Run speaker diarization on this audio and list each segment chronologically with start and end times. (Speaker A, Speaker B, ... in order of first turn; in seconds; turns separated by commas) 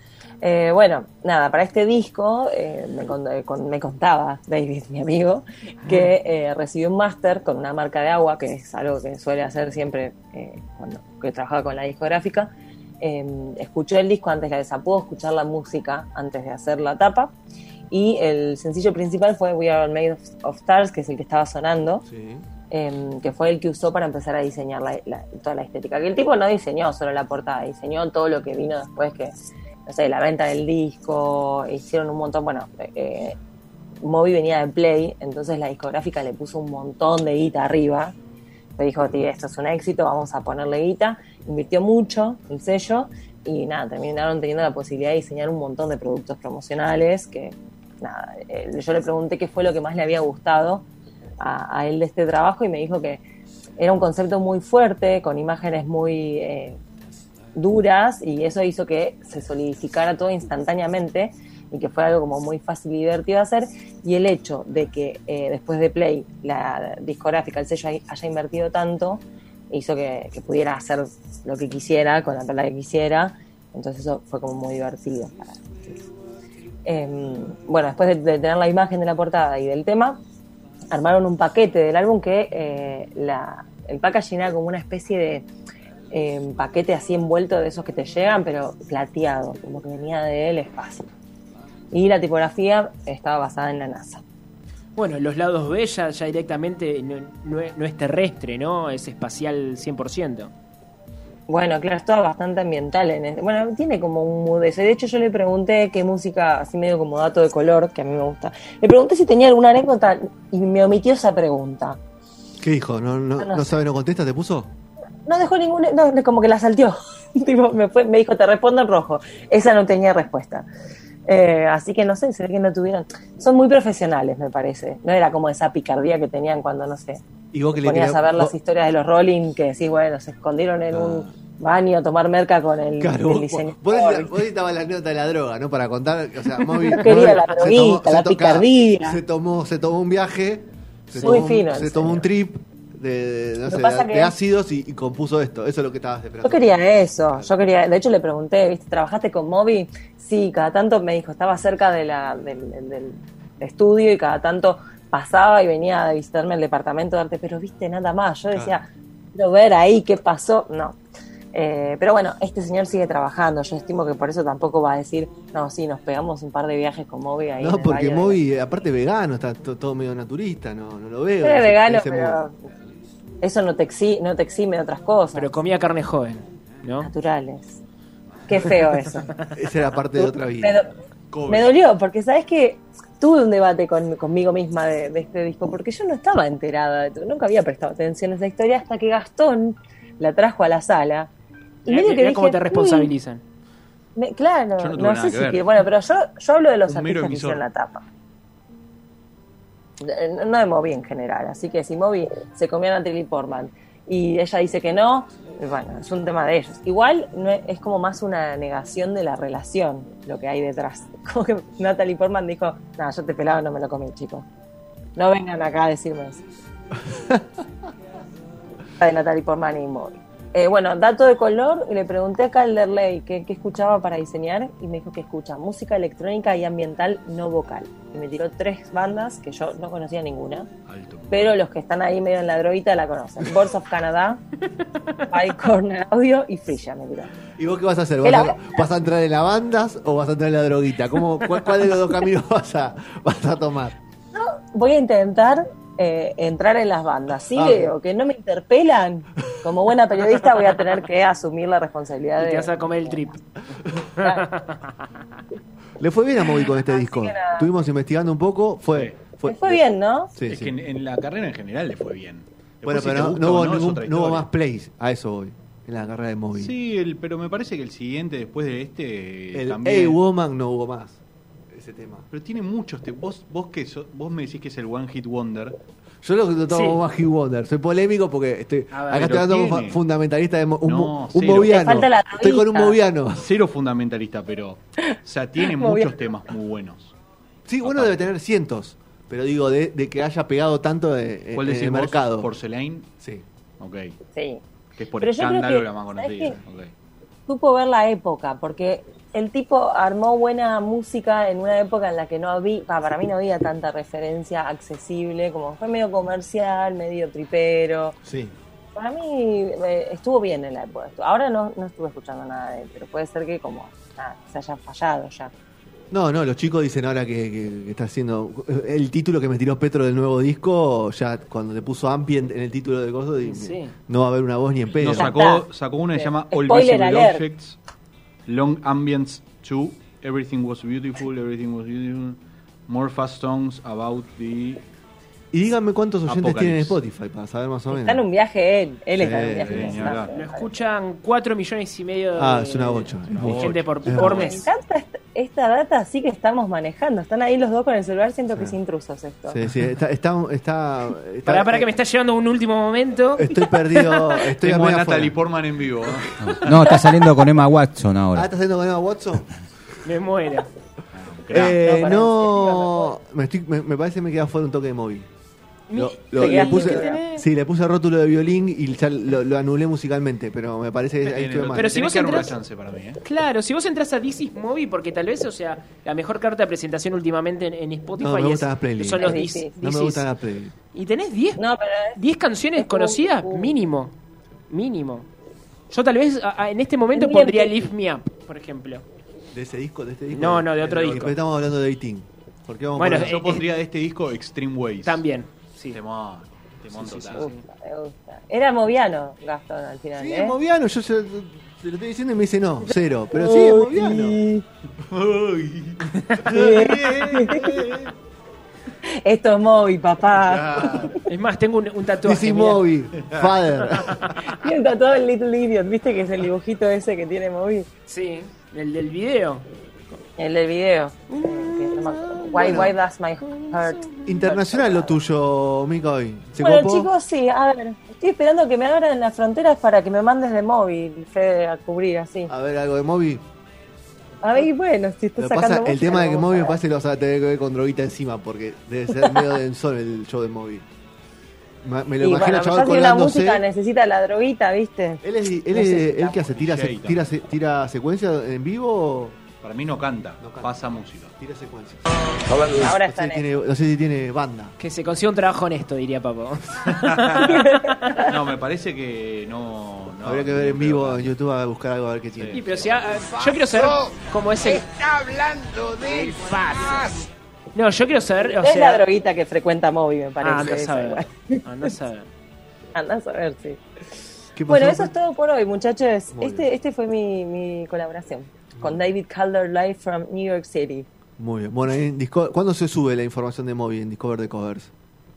Speaker A: 0.4-17.3, Speaker A: 17.9-22.1, Speaker B: 22.1-22.4, Speaker A: 22.7-29.3, Speaker A: 29.9-33.4, Speaker A: 34.0-38.1, Speaker A: 38.8-50.9, Speaker A: 51.4-53.2, Speaker A: 53.8-56.8, Speaker A: 57.5-76.0, Speaker A: 76.8-80.2, Speaker A: 80.9-85.5, Speaker A: 86.1-91.1, Speaker A: 91.9-94.2, Speaker C: 95.0-100.5, Speaker A: 101.5-112.0, Speaker B: 112.6-114.7, Speaker A: 113.4-113.8, Speaker A: 115.2-120.7, Speaker A: 121.3-127.2, Speaker B: 127.5-128.5, Speaker A: 127.8-134.4, Speaker B: 130.9-131.3, Speaker B: 133.0-146.7, Speaker A: 136.8-139.2, Speaker A: 141.2-142.3, Speaker A: 143.7-144.3, Speaker A: 146.4-161.0, Speaker B: 158.5-158.8, Speaker A: 161.5-168.4, Speaker B: 167.6-172.4, Speaker A: 171.4-172.6, Speaker A: 173.4-175.5, Speaker C: 175.3-177.1, Speaker A: 177.0-177.8, Speaker A: 178.5-179.3, Speaker B: 179.5-180.8, Speaker A: 180.2-180.9, Speaker D: 181.3-181.7, Speaker A: 181.5-191.3, Speaker A: 191.8-193.1, Speaker C: 191.9-193.4, Speaker A: 194.2-198.0, Speaker D: 194.8-195.8, Speaker D: 196.8-197.6, Speaker A: 200.0-214.4, Speaker A: 215.2-216.4, Speaker B: 217.1-217.4, Speaker A: 219.0-230.7, Speaker D: 230.9-231.5, Speaker A: 231.3-234.4, Speaker A: 235.3-237.3, Speaker B: 237.6-244.0, Speaker A: 238.2-238.9, Speaker A: 244.3-253.3, Speaker B: 247.5-247.9, Speaker C: 252.4-253.4, Speaker C: 254.2-254.8, Speaker A: 254.2-254.5, Speaker B: 256.0-259.8, Speaker A: 256.7-257.7, Speaker A: 259.4-260.3, Speaker B: 260.3-260.7, Speaker D: 260.4-264.5, Speaker B: 262.8-266.7, Speaker D: 266.6-270.2, Speaker B: 269.5-272.2, Speaker D: 272.3-275.8, Speaker B: 276.2-283.5, Speaker C: 276.7-277.0, Speaker C: 278.9-279.3, Speaker D: 279.1-280.0, Speaker D: 280.8-281.8, Speaker A: 281.5-283.0, Speaker D: 283.4-287.1, Speaker A: 285.1-286.1, Speaker B: 287.7-292.5, Speaker D: 287.8-288.2, Speaker D: 291.5-293.1, Speaker D: 293.8-294.1, Speaker A: 294.3-294.6, Speaker D: 295.0-296.9, Speaker A: 295.2-296.6, Speaker A: 297.5-308.1, Speaker B: 308.2-308.5, Speaker A: 308.9-315.5, Speaker B: 316.1-325.4, Speaker C: 323.4-323.9, Speaker D: 324.9-327.8, Speaker A: 325.1-327.4, Speaker D: 328.5-334.8, Speaker B: 335.5-338.2, Speaker D: 336.2-337.0, Speaker A: 337.9-340.7, Speaker B: 339.2-340.0, Speaker D: 339.6-340.3, Speaker C: 340.3-344.7, Speaker B: 342.4-344.5, Speaker D: 343.3-344.3, Speaker A: 344.1-349.6, Speaker B: 349.5-351.9, Speaker C: 351.4-354.4, Speaker B: 353.3-355.4, Speaker D: 354.6-356.8, Speaker E: 356.5-358.5, Speaker B: 358.3-359.5, Speaker C: 360.0-360.7, Speaker D: 361.1-361.8, Speaker B: 361.5-365.3, Speaker C: 361.8-363.0, Speaker A: 361.9-362.3, Speaker C: 365.9-367.4, Speaker B: 365.9-371.9, Speaker A: 366.4-367.2, Speaker D: 371.2-373.2, Speaker C: 371.7-372.6, Speaker C: 373.2-380.3, Speaker B: 378.2-380.7, Speaker A: 379.1-379.7, Speaker C: 380.9-381.6, Speaker A: 381.6-382.2, Speaker C: 382.1-384.1, Speaker A: 382.8-383.7, Speaker C: 384.7-385.3, Speaker C: 385.9-389.0, Speaker A: 387.1-387.8, Speaker B: 389.5-393.5, Speaker C: 390.3-391.3, Speaker D: 390.8-391.3, Speaker C: 392.9-393.6, Speaker D: 393.1-395.2, Speaker C: 395.0-396.0, Speaker D: 395.9-397.5, Speaker C: 396.9-397.6, Speaker A: 397.4-400.6, Speaker B: 400.2-404.4, Speaker A: 403.3-404.6, Speaker D: 405.0-408.1, Speaker A: 406.4-407.8, Speaker A: 409.0-411.2, Speaker D: 410.4-411.1, Speaker C: 411.3-412.9, Speaker B: 412.2-414.2, Speaker D: 413.2-413.5, Speaker A: 414.5-417.9, Speaker C: 418.1-419.6, Speaker A: 420.4-424.0, Speaker C: 421.3-422.9, Speaker B: 422.6-422.9, Speaker C: 423.4-425.0, Speaker B: 424.2-427.1, Speaker A: 426.6-432.5, Speaker B: 432.5-433.4, Speaker A: 434.4-436.8, Speaker B: 435.4-440.9, Speaker B: 441.8-443.6, Speaker A: 442.2-446.3, Speaker B: 445.2-449.4, Speaker D: 446.3-447.2, Speaker D: 449.6-451.3, Speaker B: 450.4-450.7, Speaker B: 451.4-452.1, Speaker A: 452.6-453.4, Speaker B: 452.6-454.7, Speaker C: 454.8-458.2, Speaker D: 456.9-461.3, Speaker B: 460.2-462.9, Speaker D: 462.4-462.6, Speaker C: 462.5-465.4, Speaker C: 465.9-467.2, Speaker C: 467.7-469.0, Speaker A: 468.6-471.9, Speaker C: 470.4-472.3, Speaker A: 472.9-473.8, Speaker B: 474.6-475.1, Speaker A: 474.7-481.1, Speaker B: 476.3-476.7, Speaker B: 481.4-484.9